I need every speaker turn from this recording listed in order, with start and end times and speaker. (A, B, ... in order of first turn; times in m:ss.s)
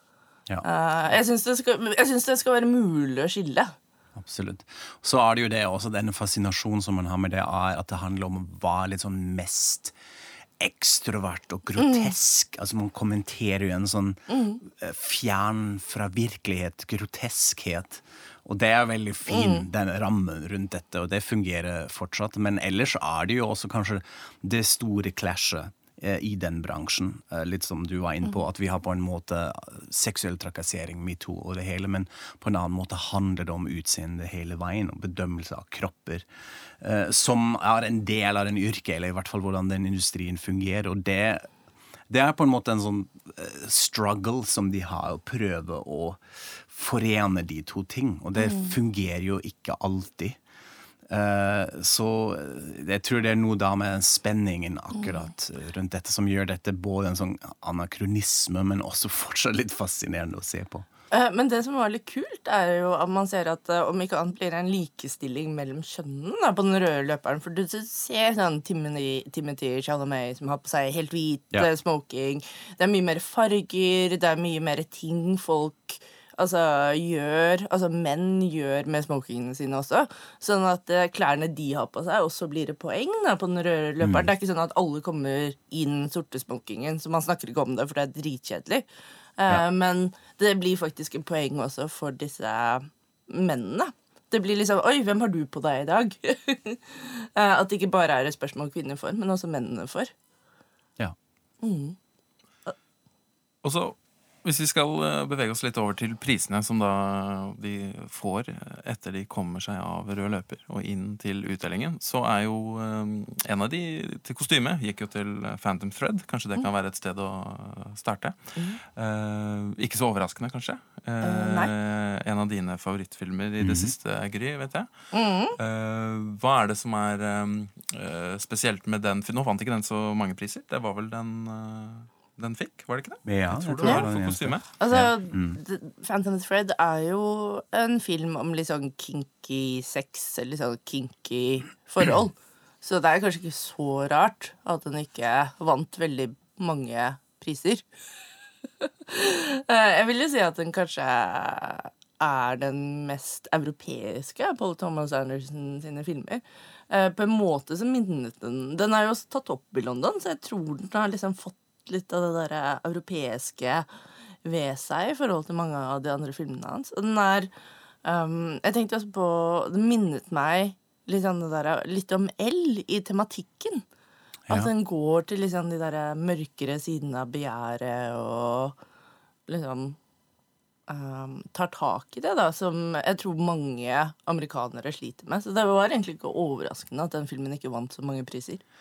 0:00.6-0:03.7 A
0:04.1-0:10.0 B
0:10.6-0:36.2 B
0:11.8-0:12.1 A
0:14.3-0:14.6 A
0:19.3-0:19.6 A
0:36.8-0:41.5 B
0:42.1-0:50.4 B
0:48.4-0:48.7 A
0:51.1-1:00.9 B
0:54.9-0:55.2 A
1:01.1-1:28.8 A
1:24.0-1:24.3 B
1:29.4-1:40.1 A
1:41.6-1:42.0 A
1:43.6-2:04.9 C
2:01.2-2:01.7 A
2:03.6-2:03.9 B
2:05.1-2:05.6 A
2:05.6-2:14.6 C
2:13.2-2:15.6 B
2:14.8-2:27.8 A
2:28.8-2:43.9 A
2:44.4-2:47.5 A
2:48.0-2:53.8 A
2:54.5-2:54.7 B
2:54.5-2:58.8 A
2:59.5-3:00.0 A
3:00.9-3:08.6 A